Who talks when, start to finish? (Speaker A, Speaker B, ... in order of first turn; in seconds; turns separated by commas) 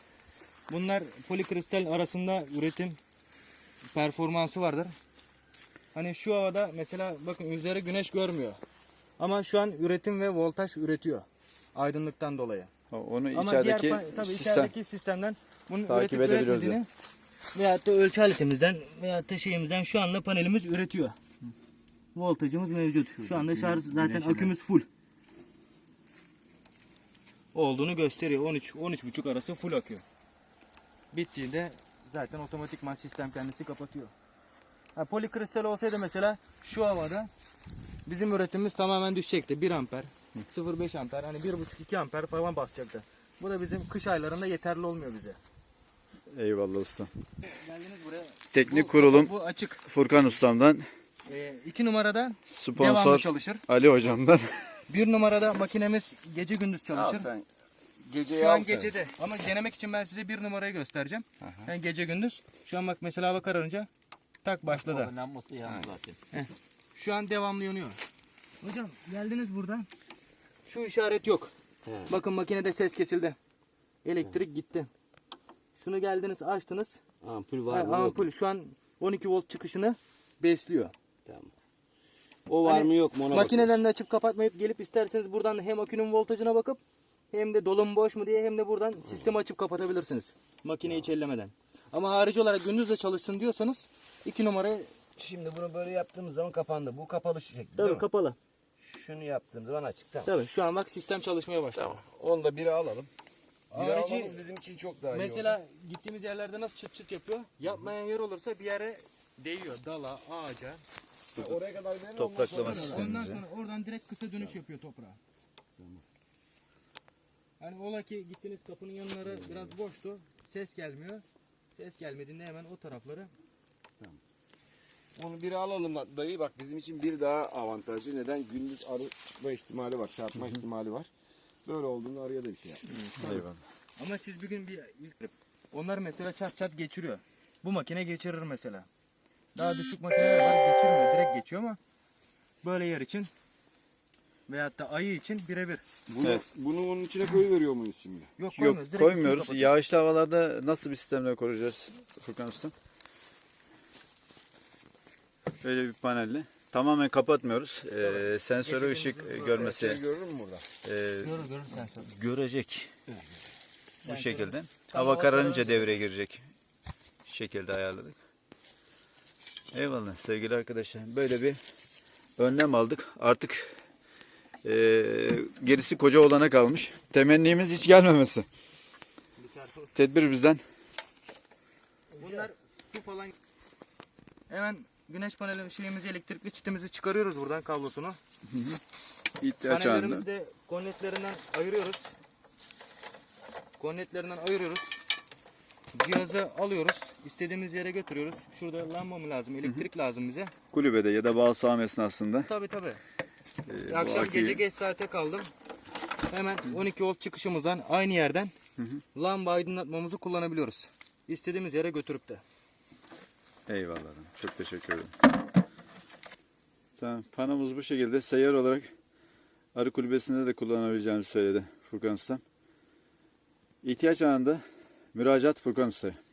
Speaker A: 0.7-3.0, Speaker A: 3.9-4.9, Speaker A: 5.9-8.6, Speaker A: 9.2-12.7, Speaker B: 12.9-14.7, Speaker A: 13.3-16.9, Speaker B: 15.9-16.8, Speaker A: 17.5-21.2, Speaker A: 22.1-24.9, Speaker B: 23.2-24.5, Speaker A: 27.5-30.0, Speaker A: 31.1-34.1, Speaker A: 35.0-37.3, Speaker A: 38.0-45.4, Speaker B: 46.3-47.1, Speaker A: 47.5-49.8, Speaker B: 48.5-49.3, Speaker B: 49.8-50.9, Speaker A: 51.3-53.6, Speaker B: 52.5-54.5, Speaker A: 54.9-57.3, Speaker C: 56.9-57.5, Speaker C: 58.0-58.9, Speaker A: 58.3-63.9, Speaker C: 61.4-61.7, Speaker A: 64.4-65.1, Speaker B: 64.8-66.0, Speaker C: 65.6-66.1, Speaker A: 66.3-68.0, Speaker A: 68.6-69.9, Speaker A: 70.7-71.5, Speaker C: 71.8-72.1, Speaker A: 72.1-73.3, Speaker A: 74.0-74.9, Speaker A: 75.8-77.0, Speaker C: 77.2-78.2, Speaker A: 77.7-80.9, Speaker C: 81.2-81.5, Speaker C: 82.5-83.8, Speaker A: 82.6-86.8, Speaker A: 87.3-94.9, Speaker C: 95.2-98.0, Speaker A: 97.8-98.4, Speaker C: 98.8-100.3, Speaker A: 100.2-102.0, Speaker C: 101.7-103.1, Speaker C: 103.7-105.5, Speaker A: 103.7-104.4, Speaker A: 105.1-110.8, Speaker C: 111.3-113.1, Speaker B: 112.2-113.4, Speaker A: 112.5-115.2, Speaker C: 115.8-116.0, Speaker A: 117.6-121.2, Speaker C: 119.2-119.8, Speaker A: 121.8-123.3, Speaker C: 125.2-131.1, Speaker C: 131.6-133.4, Speaker B: 133.1-133.6, Speaker A: 134.0-138.9, Speaker A: 139.5-141.8, Speaker A: 142.6-143.3, Speaker A: 144.5-145.8, Speaker C: 146.1-148.3, Speaker A: 148.4-149.7, Speaker B: 148.6-152.7, Speaker B: 155.6-160.0, Speaker A: 158.0-159.7, Speaker C: 159.4-160.7, Speaker B: 160.8-161.4, Speaker A: 161.2-162.1, Speaker B: 162.0-162.9, Speaker A: 164.0-165.9, Speaker B: 164.0-166.4, Speaker B: 167.2-168.2, Speaker B: 169.7-171.6, Speaker B: 172.4-173.7, Speaker B: 174.6-178.4, Speaker A: 179.4-179.9, Speaker B: 179.9-180.6, Speaker A: 182.2-183.3, Speaker A: 184.5-188.2, Speaker B: 188.5-188.8, Speaker B: 189.4-190.2, Speaker A: 189.6-192.1, Speaker A: 193.8-195.0, Speaker A: 195.9-200.5, Speaker B: 200.7-202.5, Speaker A: 202.4-203.0, Speaker B: 203.7-204.6, Speaker A: 203.9-205.5, Speaker A: 206.3-208.5, Speaker A: 209.1-212.4, Speaker B: 213.7-215.1, Speaker B: 217.0-218.9, Speaker B: 219.7-222.4, Speaker B: 223.8-224.6, Speaker B: 225.1-226.2